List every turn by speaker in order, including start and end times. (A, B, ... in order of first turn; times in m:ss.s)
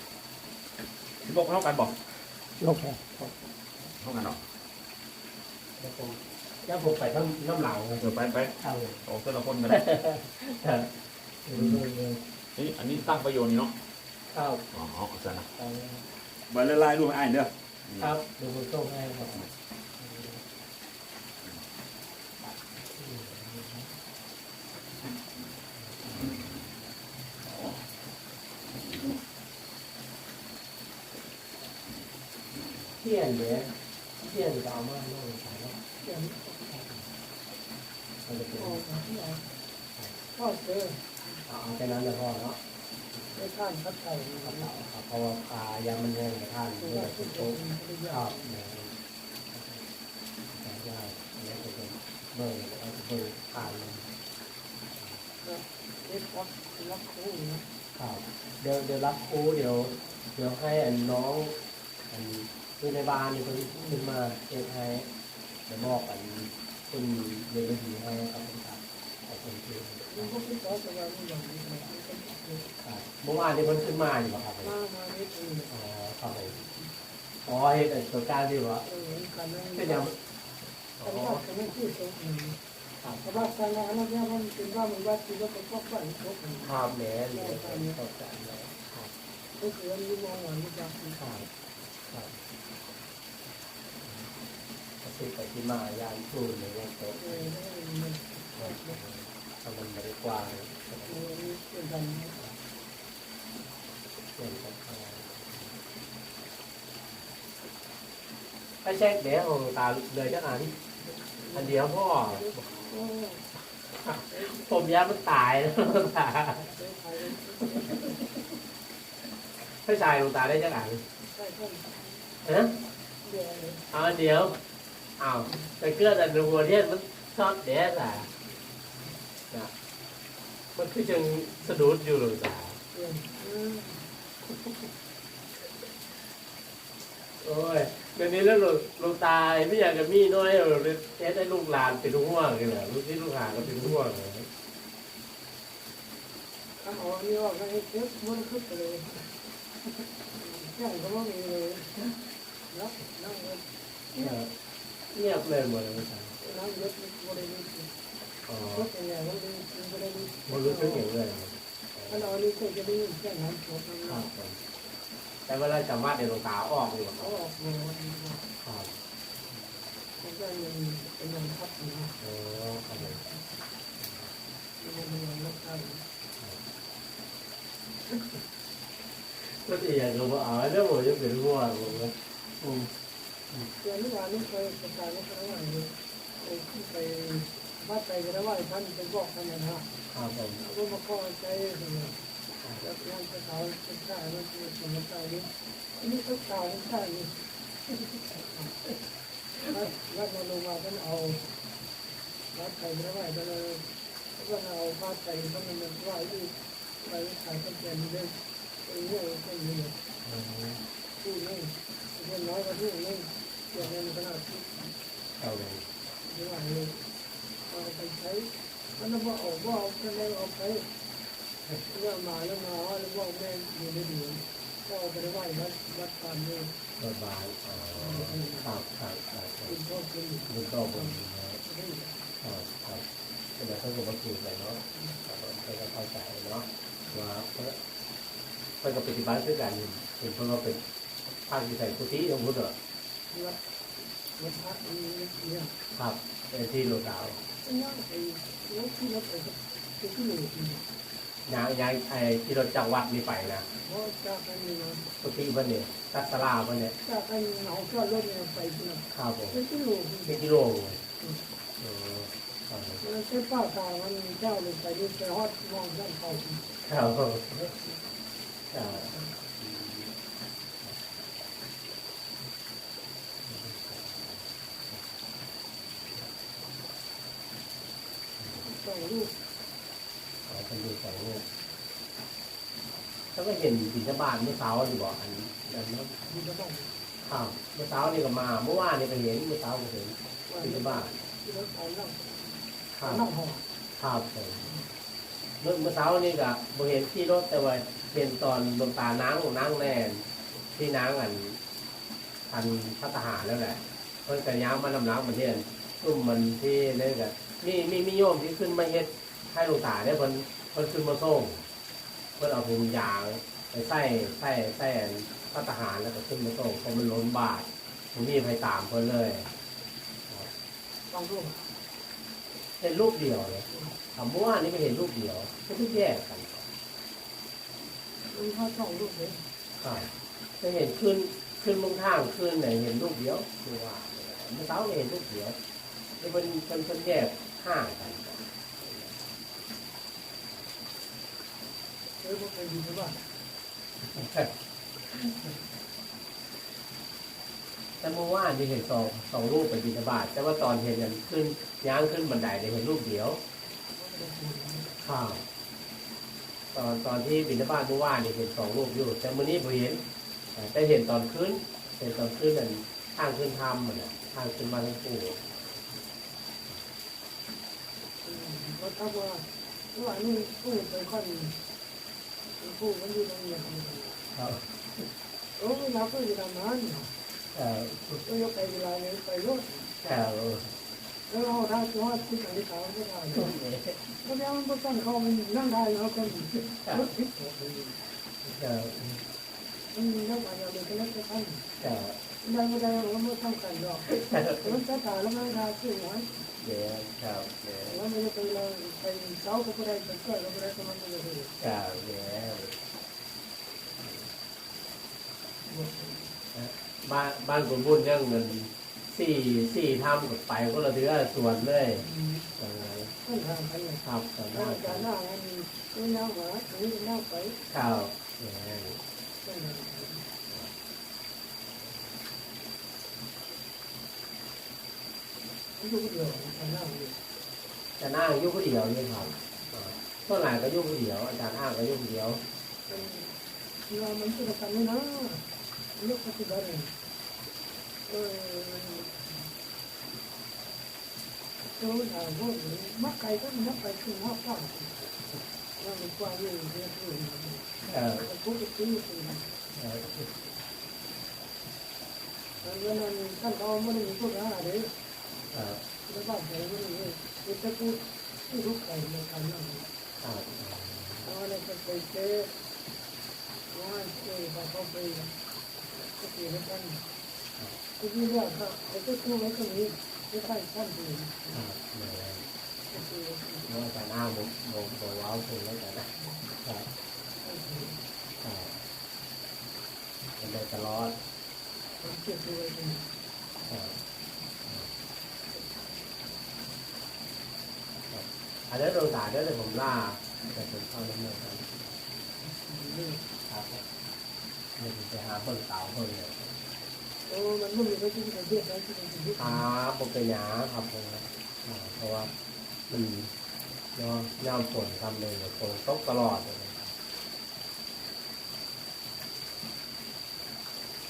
0:01.2-0:02.0 A
0:02.6-0:03.4 B
0:04.0-0:04.4 A
0:05.8-0:09.0 B
0:08.0-0:09.8 A
0:09.7-0:12.2 B
0:12.6-0:13.7 A
0:14.3-0:14.7 B
0:14.7-0:15.5 A
0:15.6-0:16.1 B
0:16.5-0:18.1 A
0:18.0-0:19.5 B
0:20.0-0:20.4 B
0:23.0-0:23.9 B
0:25.8-0:26.3 B
0:32.9-0:35.8 B
0:36.0-0:36.8 C
0:36.7-0:37.1 B
0:38.2-0:39.0 B
0:38.6-0:39.4 C
0:40.3-0:41.2 C
0:41.4-0:42.6 B
0:43.3-0:44.7 C
0:44.4-0:49.0 B
0:46.8-0:48.5 C
0:49.5-0:49.8 B
0:50.5-0:54.1 B
0:55.4-0:57.6 C
0:58.0-1:01.6 B
1:02.1-1:05.1 B
1:05.7-1:10.3 B
1:10.1-1:12.7 C
1:12.8-1:14.8 B
1:14.6-1:15.7 C
1:15.7-1:16.6 B
1:16.5-1:16.9 C
1:17.4-1:18.9 B
1:18.9-1:20.1 C
1:19.7-1:20.2 B
1:21.0-1:21.4 B
1:21.0-1:22.6 C
1:23.0-1:23.5 B
1:23.2-1:26.8 C
1:26.6-1:29.1 B
1:27.3-1:28.0 C
1:29.5-1:31.2 C
1:31.2-1:31.5 B
1:32.1-1:32.4 B
1:34.0-1:34.3 B
1:35.0-1:37.5 B
1:37.2-1:39.0 C
1:38.6-1:41.2 B
1:41.1-1:42.4 C
1:44.4-1:45.7 B
1:48.8-1:50.8 B
1:51.0-1:53.5 C
1:51.5-1:52.5 B
1:54.0-1:56.7 B
1:54.3-1:54.7 C
1:56.6-1:58.3 C
1:59.6-2:01.0 B
2:01.2-2:02.4 C
2:02.4-2:02.8 B
2:03.2-2:03.9 C
2:03.9-2:04.6 B
2:05.2-2:08.3 B
2:10.7-2:12.8 B
2:12.9-2:14.1 C
2:17.4-2:24.5 B
2:23.5-2:23.9 C
2:26.8-2:29.4 C
2:30.2-2:32.1 C
2:32.7-2:34.3 C
2:34.2-2:34.5 B
2:35.1-2:36.4 B
2:36.4-2:37.9 C
2:38.5-2:38.9 B
2:38.7-2:41.1 C
2:40.5-2:42.3 B
2:42.1-2:44.3 C
2:44.0-2:44.6 B
2:45.5-2:47.3 B
2:47.2-2:48.4 C
2:48.6-2:48.9 B
2:50.2-2:52.2 C
2:52.2-2:53.2 B
2:53.0-2:53.4 C
2:54.0-2:54.3 B
2:54.8-2:56.0 C
2:59.4-3:02.9 B
3:03.8-3:09.9 C
3:10.1-3:10.6 B
3:10.6-3:12.2 C
3:12.8-3:18.9 C
3:19.7-3:21.5 C
3:22.5-3:30.0 C
3:30.2-3:30.8 B
3:31.2-3:34.9 C
3:35.4-3:35.8 B
3:36.2-3:37.0 C
3:37.7-3:40.9 C
3:41.9-3:46.8 C
3:47.0-3:49.8 B
3:48.0-3:48.7 C
3:49.7-3:52.3 C
3:50.5-3:51.6 B
3:52.4-3:53.0 B
3:53.6-3:57.8 B
3:54.9-3:55.2 C
3:58.8-4:00.8 B
4:01.5-4:02.8 B
4:03.3-4:03.6 C
4:04.3-4:05.7 C
4:05.9-4:07.4 B
4:07.6-4:10.8 C
4:11.5-4:13.7 B
4:13.8-4:15.1 C
4:15.2-4:17.0 B
4:17.0-4:20.4 C
4:19.1-4:19.6 B
4:20.2-4:21.0 B
4:21.8-4:23.0 B
4:23.0-4:26.7 C
4:26.8-4:27.8 B
4:27.7-4:28.0 C
4:28.7-4:30.1 B
4:28.8-4:29.4 C
4:33.4-4:35.0 B
4:38.5-4:39.3 C
4:40.4-4:41.5 B
4:43.3-4:46.1 B
4:46.3-4:47.0 C
4:47.2-4:51.2 B
4:50.5-4:53.6 C
4:52.9-4:53.3 B
4:54.0-4:54.7 B
4:55.6-5:01.6 B
5:02.5-5:11.6 B
5:12.4-5:19.5 B
5:21.1-5:21.7 C
5:22.8-5:26.7 B
5:23.7-5:24.0 C
5:28.3-5:29.4 C
5:29.8-5:35.6 B
5:36.2-5:39.2 B
5:42.2-5:43.2 C
5:44.0-5:44.5 B
5:45.1-5:45.5 B
5:48.0-5:53.4 B
5:53.9-5:54.9 C
5:55.0-5:55.4 B
5:56.7-6:00.0 B
6:00.5-6:06.0 B
6:08.2-6:11.6 C
6:12.6-6:14.2 C
6:14.3-6:15.1 B
6:15.6-6:17.1 C
6:17.5-6:18.2 B
6:18.2-6:19.9 C
6:20.0-6:20.8 B
6:21.3-6:23.6 C
6:23.3-6:24.1 B
6:24.2-6:28.0 C
6:28.4-6:29.2 B
6:29.9-6:31.7 C
6:31.8-6:32.2 B
6:32.4-6:36.4 C
6:34.1-6:34.6 B
6:36.6-6:38.0 B
6:37.9-6:41.6 C
6:41.6-6:42.8 B
6:44.0-6:44.3 B
6:45.7-6:46.4 C
6:46.5-6:53.1 B
6:52.0-6:52.5 C
6:53.2-6:57.6 C
6:54.0-6:55.1 B
6:57.7-6:59.0 B
6:59.4-7:00.3 C
7:00.5-7:00.7 B
7:05.8-7:07.2 C
7:08.0-7:12.4 B
7:12.9-7:16.9 C
7:18.0-7:19.5 C
7:21.7-7:25.1 C
7:25.8-7:29.6 C
7:27.8-7:28.3 B
7:29.7-7:30.4 B
7:32.6-7:34.9 C
7:35.5-7:35.8 B
7:36.0-7:39.9 C
7:40.2-7:41.3 B
7:41.2-7:42.5 C
7:43.7-7:45.3 C
7:45.9-7:47.1 C
7:48.0-7:51.6 C
7:51.5-7:52.5 B
7:52.9-7:53.7 C
7:53.6-7:56.9 B
7:57.4-7:58.0 C
7:58.4-7:58.8 B
8:00.4-8:01.2 B
8:02.0-8:03.1 C
8:03.7-8:04.0 B
8:05.5-8:06.0 C
8:08.1-8:11.8 B
8:12.4-8:13.3 C
8:13.5-8:13.8 B
8:14.8-8:16.6 B
8:17.3-8:19.7 C
8:19.4-8:22.3 B
8:22.9-8:23.3 B
8:23.9-8:27.0 B